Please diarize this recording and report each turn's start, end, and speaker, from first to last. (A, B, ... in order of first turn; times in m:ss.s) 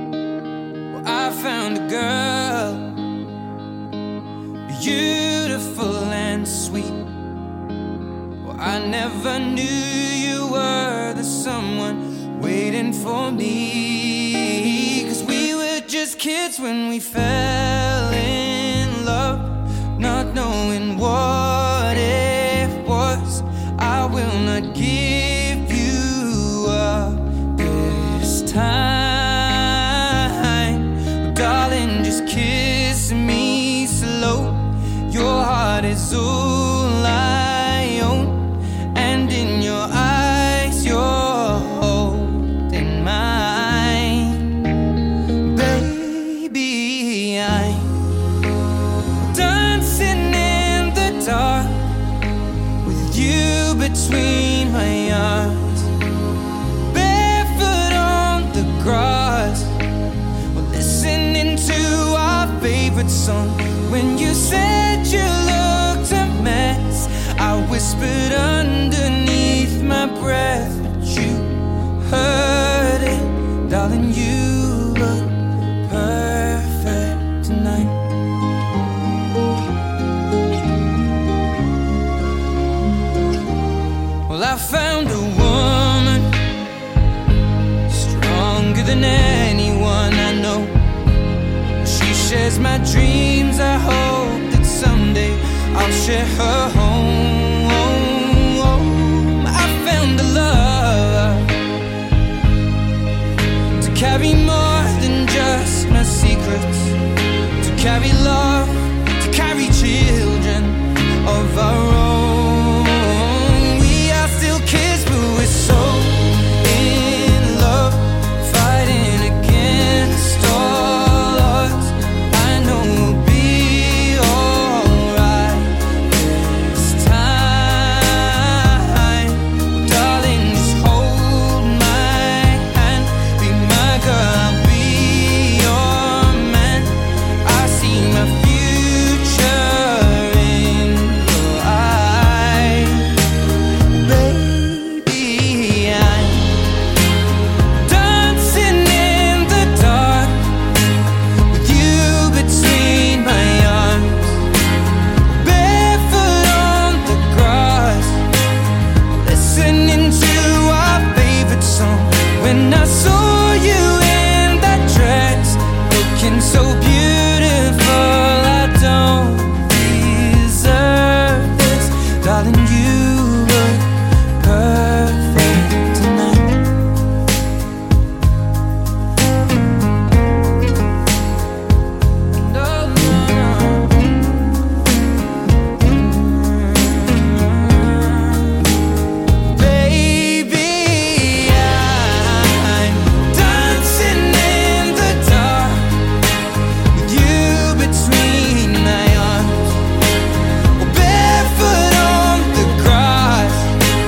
0:00.9-0:03.0 A
0:04.7-0:07.0 A
0:08.4-0:44.5 A
0:45.5-0:47.9 A
0:49.3-0:51.9 A
0:52.8-0:55.9 A
0:56.9-0:59.8 A
1:00.5-1:18.0 A
1:24.3-1:26.3 A
1:27.9-1:30.8 A
1:31.8-1:41.5 A
1:43.8-1:47.0 A
1:47.6-2:23.1 A
2:23.9-2:26.6 A
2:27.8-2:30.5 A
2:31.5-2:34.4 A
2:35.3-2:38.2 A
2:39.1-2:56.6 A
3:02.5-3:04.1 A
3:06.1-3:08.5 A
3:09.5-3:15.9 A
3:17.0-3:19.8 A
3:20.8-3:23.8 A